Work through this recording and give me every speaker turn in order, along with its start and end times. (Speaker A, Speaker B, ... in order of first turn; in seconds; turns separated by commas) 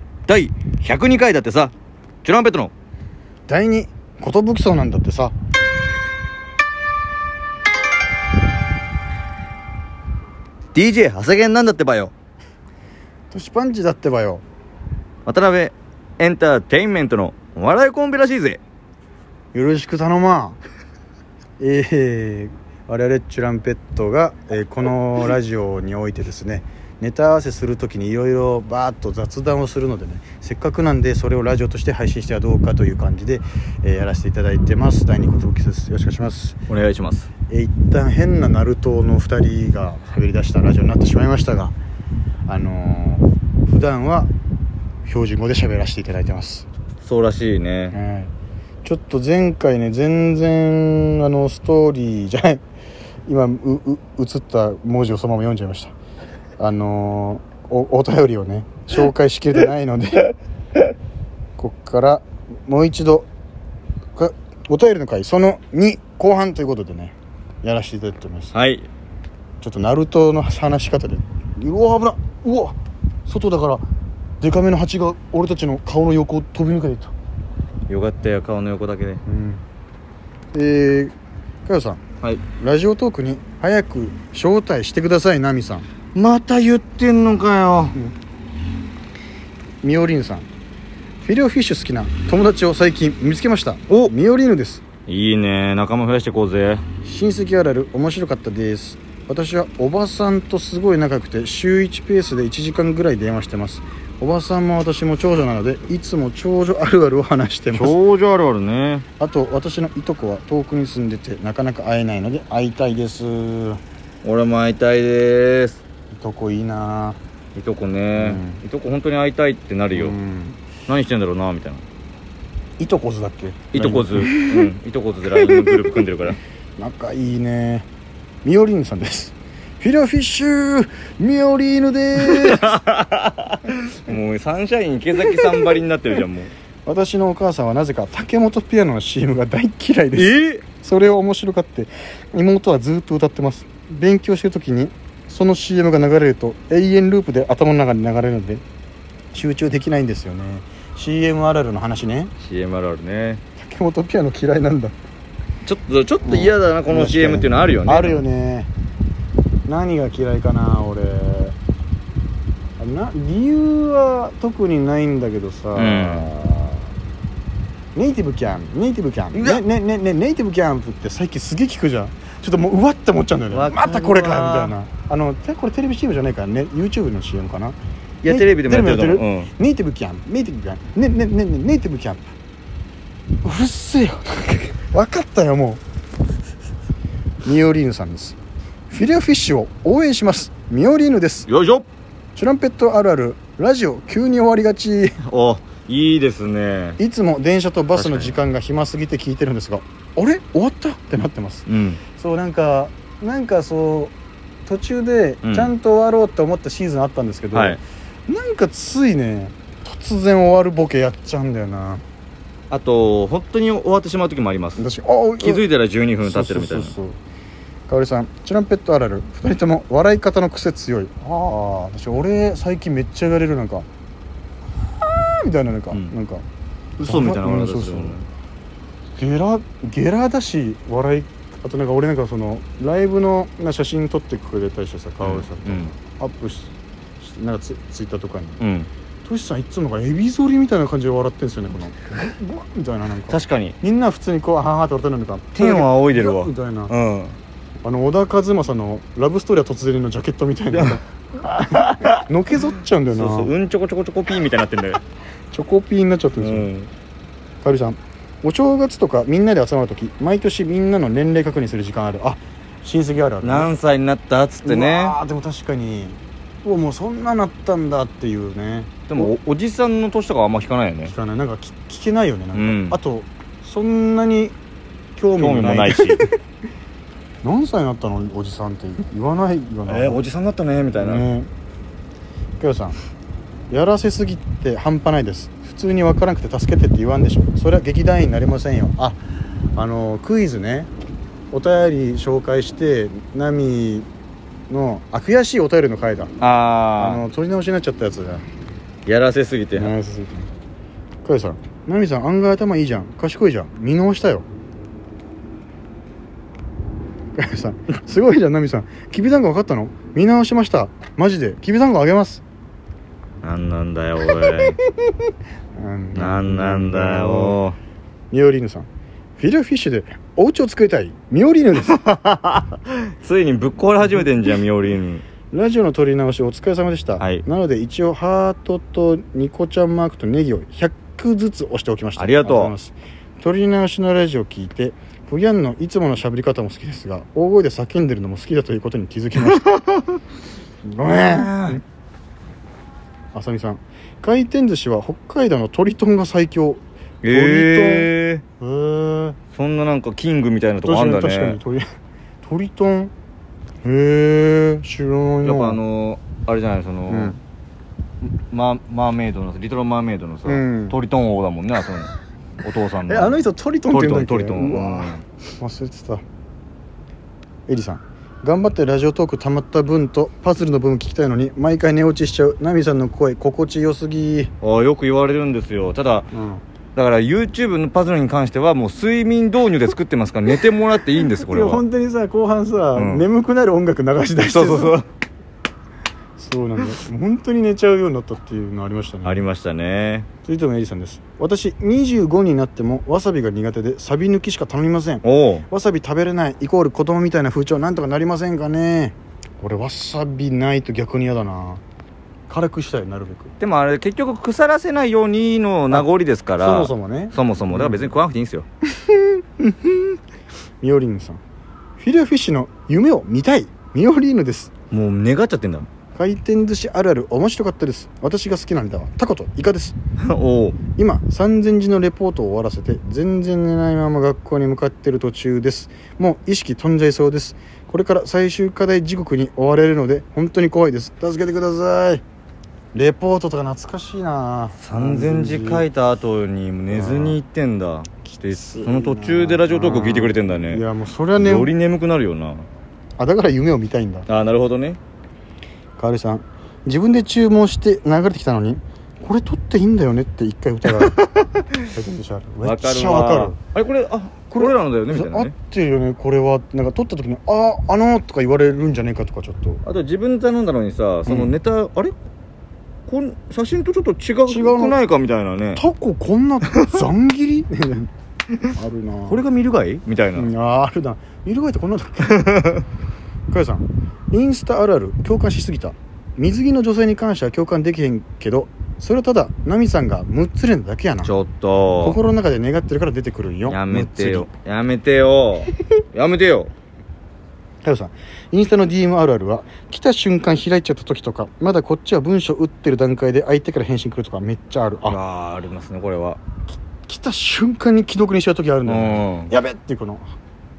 Speaker A: 0.3-1.7, Speaker A: 2.2-2.7, Speaker B: 3.5-5.3, Speaker A: 10.7-12.1, Speaker B: 13.3-14.4, Speaker A: 15.3-18.6, Speaker B: 19.5-20.6, Speaker B: 21.6-36.6, Speaker A: 36.7-37.3, Speaker B: 37.5-41.8, Speaker B: 42.5-44.3, Speaker B: 45.0-46.6, Speaker A: 47.0-48.0, Speaker B: 47.9-48.3, Speaker B: 48.8-52.6, Speaker B: 53.3-55.9, Speaker B: 56.6-60.3, Speaker B: 61.6-63.3, Speaker B: 64.2-68.5, Speaker A: 68.5-68.9, Speaker B: 69.6-73.8, Speaker B: 74.4-77.1, Speaker A: 77.9-79.2, Speaker B: 79.3-79.6, Speaker B: 80.5-81.1, Speaker B: 81.7-82.0, Speaker B: 82.5-85.9, Speaker A: 86.2-88.0, Speaker B: 89.8-90.5, Speaker B: 91.2-94.8, Speaker A: 95.1-96.8, Speaker B: 97.0-108.0, Speaker A: 107.7-109.1, Speaker B: 109.2-113.8, Speaker A: 114.2-115.8, Speaker B: 116.1-117.2, Speaker A: 117.5-120.2, Speaker B: 118.2-118.6, Speaker B: 119.9-120.6, Speaker A: 120.9-121.8, Speaker B: 122.8-124.7, Speaker A: 123.7-126.4, Speaker B: 126.8-127.9, Speaker B: 128.4-132.8, Speaker A: 132.2-136.5, Speaker B: 136.9-148.6, Speaker A: 140.2-140.6, Speaker B: 149.3-152.3, Speaker A: 152.4-153.4, Speaker B: 153.6-154.9, Speaker A: 155.7-158.2, Speaker B: 156.2-158.7, Speaker B: 159.7-161.5, Speaker B: 162.8-166.8, Speaker A: 165.8-166.3, Speaker B: 167.9-182.3, Speaker A: 169.3-169.6, Speaker A: 173.5-174.8, Speaker A: 178.2-179.5, Speaker B: 183.4-185.8, Speaker B: 187.4-188.4, Speaker B: 188.9-191.5, Speaker A: 191.5-191.9, Speaker B: 192.3-195.2, Speaker A: 195.2-197.0, Speaker B: 197.0-204.2, Speaker A: 197.9-198.4, Speaker A: 201.7-202.0, Speaker B: 204.7-212.0, Speaker A: 205.4-205.7, Speaker A: 207.5-207.8, Speaker A: 212.7-214.8, Speaker B: 214.8-215.6, Speaker A: 215.4-216.9, Speaker B: 216.2-217.2, Speaker B: 217.9-223.9, Speaker B: 224.9-226.4, Speaker A: 227.0-228.3, Speaker B: 227.0-228.2, Speaker B: 229.2-238.6, Speaker A: 235.2-235.9, Speaker A: 238.6-238.9, Speaker B: 239.2-246.9, Speaker A: 243.3-243.8, Speaker A: 245.6-247.4, Speaker B: 247.8-251.0, Speaker A: 250.7-252.2, Speaker B: 251.7-253.5, Speaker A: 253.1-255.0, Speaker B: 255.5-256.7, Speaker A: 256.4-256.9, Speaker B: 257.6-263.7, Speaker A: 263.4-265.2, Speaker B: 264.6-269.3, Speaker A: 269.1-271.1, Speaker B: 271.1-274.6, Speaker A: 272.5-273.0, Speaker B: 275.2-276.3, Speaker A: 275.4-276.3, Speaker B: 277.4-280.2, Speaker A: 279.9-281.3, Speaker B: 281.0-281.5, Speaker B: 282.6-283.0, Speaker B: 283.7-289.2, Speaker B: 289.8-290.9, Speaker B: 291.5-294.1, Speaker B: 294.7-296.4, Speaker A: 296.4-297.2, Speaker B: 297.0-298.4, Speaker A: 299.1-299.9, Speaker B: 299.8-300.5, Speaker B: 301.2-304.5, Speaker B: 307.4-312.4, Speaker A: 313.4-314.8, Speaker B: 315.8-317.6, Speaker A: 316.1-317.8, Speaker B: 318.3-322.0, Speaker A: 321.8-325.2, Speaker B: 325.5-339.6, Speaker A: 327.2-327.4, Speaker A: 332.2-332.7, Speaker A: 339.4-340.0, Speaker B: 340.9-341.8, Speaker A: 341.1-341.8, Speaker B: 343.3-349.4, Speaker A: 347.2-348.4, Speaker A: 349.5-351.6, Speaker B: 350.8-353.1, Speaker B: 353.8-355.8, Speaker A: 355.4-357.4, Speaker B: 357.1-357.4, Speaker A: 358.2-365.2, Speaker B: 360.4-361.0, Speaker B: 363.1-366.2, Speaker B: 367.7-374.5, Speaker A: 374.6-376.3, Speaker B: 376.3-376.6, Speaker A: 376.9-381.8, Speaker B: 381.4-385.0, Speaker A: 382.9-383.3, Speaker A: 384.4-385.1, Speaker B: 386.4-389.4, Speaker A: 389.2-390.3, Speaker B: 390.4-401.8, Speaker A: 395.2-395.7, Speaker B: 402.5-403.6, Speaker A: 403.6-408.7, Speaker B: 406.6-408.2, Speaker B: 409.0-410.2, Speaker B: 410.8-411.4, Speaker B: 412.0-414.7, Speaker A: 414.9-415.9, Speaker B: 416.1-420.0, Speaker A: 420.2-420.8, Speaker B: 421.0-432.2, Speaker B: 432.9-435.9, Speaker A: 434.8-440.8, Speaker B: 436.9-437.4, Speaker B: 438.3-441.7, Speaker A: 441.4-442.7, Speaker B: 443.2-444.3, Speaker A: 444.3-445.0, Speaker B: 446.0-451.2, Speaker A: 451.0-451.7, Speaker B: 451.8-453.6, Speaker A: 452.6-455.5, Speaker B: 454.5-459.8, Speaker A: 459.8-462.2, Speaker A: 463.1-465.8, Speaker B: 464.5-465.0, Speaker B: 465.8-468.1, Speaker A: 466.7-467.0, Speaker B: 468.7-469.4, Speaker A: 469.3-470.5, Speaker B: 470.4-472.6, Speaker A: 472.3-472.8, Speaker B: 473.5-481.3, Speaker A: 481.2-482.2, Speaker B: 482.0-484.5, Speaker A: 483.7-486.7, Speaker B: 487.8-495.2, Speaker A: 495.0-496.4, Speaker B: 497.1-500.3, Speaker A: 498.9-499.5